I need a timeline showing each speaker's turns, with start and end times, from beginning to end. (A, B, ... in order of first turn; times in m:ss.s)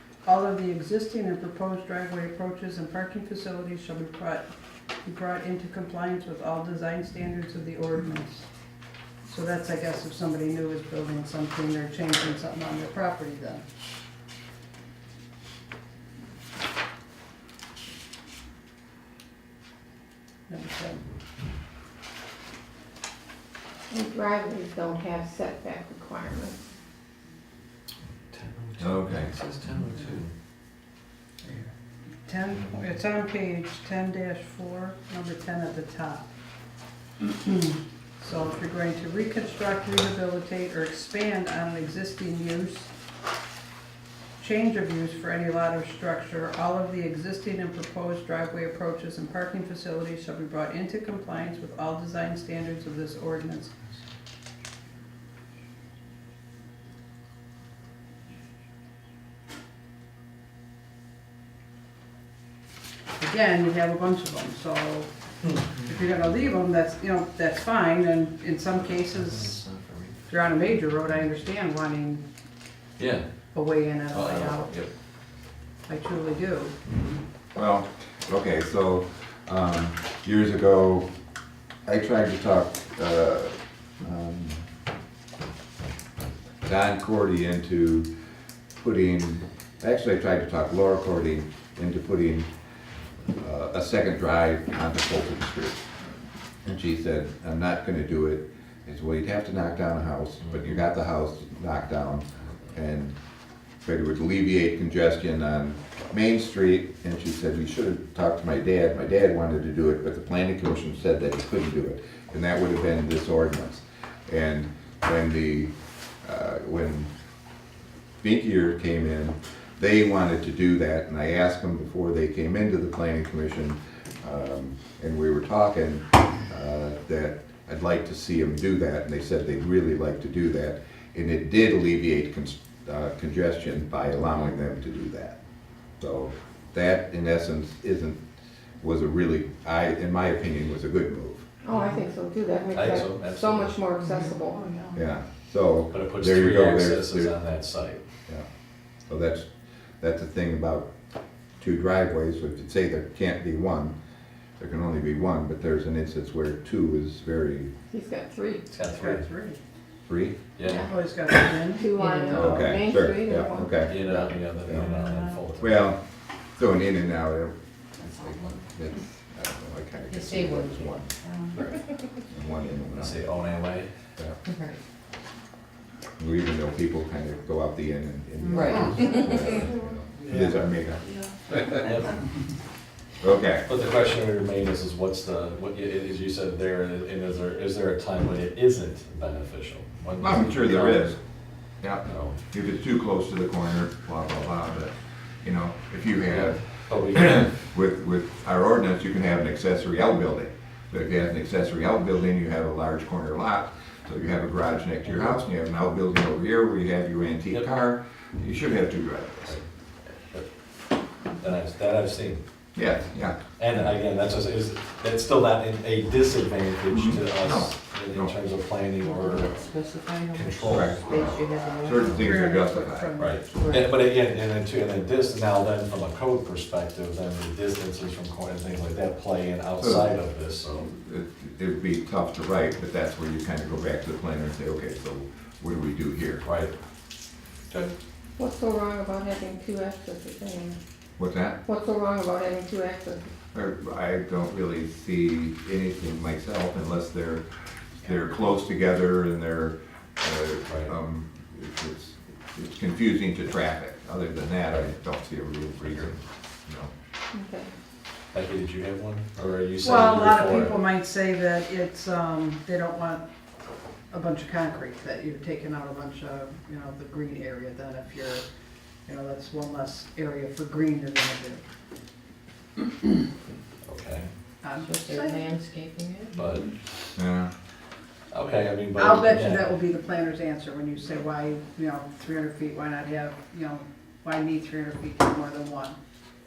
0:00.2-0:04.5 A
0:05.0-0:08.5 A
0:09.2-0:13.6 A
0:20.5-0:21.0 A
0:23.9-0:26.6 B
0:28.3-0:30.3 C
0:28.8-0:29.3 D
0:32.3-0:36.3 A
0:37.2-0:42.9 A
0:44.4-0:53.7 A
1:03.2-1:05.1 A
1:05.4-1:05.9 C
1:05.8-1:09.6 A
1:08.8-1:10.7 C
1:10.3-1:12.2 A
1:13.0-1:13.6 C
1:13.5-1:14.8 A
1:14.1-1:14.9 C
1:15.9-1:16.7 A
1:17.6-1:21.1 D
1:21.8-1:24.6 D
1:26.6-1:28.1 D
1:28.8-1:32.5 D
1:33.4-1:35.8 D
1:36.6-1:43.2 D
1:40.4-1:40.8 C
1:43.8-1:57.1 D
1:58.2-2:15.4 D
2:16.0-2:18.2 D
2:18.8-2:21.4 D
2:21.6-2:24.8 B
2:21.7-2:22.1 E
2:22.7-2:23.8 C
2:24.0-2:25.0 E
2:24.9-2:27.3 D
2:25.9-2:28.0 C
2:29.1-2:29.5 D
2:30.0-2:30.9 D
2:31.6-2:34.0 D
2:34.6-2:37.7 D
2:37.9-2:38.7 B
2:38.7-2:39.2 C
2:38.9-2:39.6 A
2:40.1-2:40.4 D
2:40.6-2:40.9 C
2:40.6-2:40.9 B
2:40.8-2:41.9 A
2:41.6-2:43.9 B
2:41.9-2:42.8 E
2:42.3-2:45.0 D
2:43.8-2:45.7 C
2:44.8-2:45.3 E
2:45.6-2:46.0 D
2:46.6-2:53.2 D
2:50.1-2:51.8 E
2:52.9-2:53.9 C
2:54.5-2:54.8 E
2:56.2-3:01.8 D
2:58.4-2:59.5 E
3:00.2-3:00.6 C
3:01.7-3:02.2 C
3:03.2-3:03.7 D
3:03.7-3:11.1 C
3:10.2-3:11.2 D
3:11.8-3:29.6 D
3:12.0-3:12.4 C
3:16.3-3:17.6 C
3:29.5-3:30.5 C
3:31.4-3:32.4 C
3:32.8-3:33.4 D
3:33.6-3:39.6 C
3:36.9-3:38.3 D
3:39.0-3:42.4 E
3:40.3-3:41.2 C
3:40.7-3:43.2 D
3:42.2-3:43.6 A
3:43.2-3:50.9 C
3:43.6-3:43.9 E
3:49.8-3:50.1 D
3:50.8-3:56.4 D
3:56.4-3:56.7 C
3:58.4-4:00.8 B
4:01.2-4:01.6 D
4:01.6-4:03.3 B
4:03.5-4:16.9 D
4:10.7-4:10.9 C
4:15.8-4:16.1 C
4:17.3-4:17.7 B
4:18.3-4:20.8 C
4:19.8-4:23.2 A
4:24.1-4:28.4 A
4:29.1-4:31.6 A
4:33.8-4:34.3 C
4:34.6-4:35.4 A
4:34.8-4:36.6 E
4:36.4-4:36.8 C
4:37.2-4:37.5 D
4:38.3-4:39.7 C
4:39.0-4:46.0 A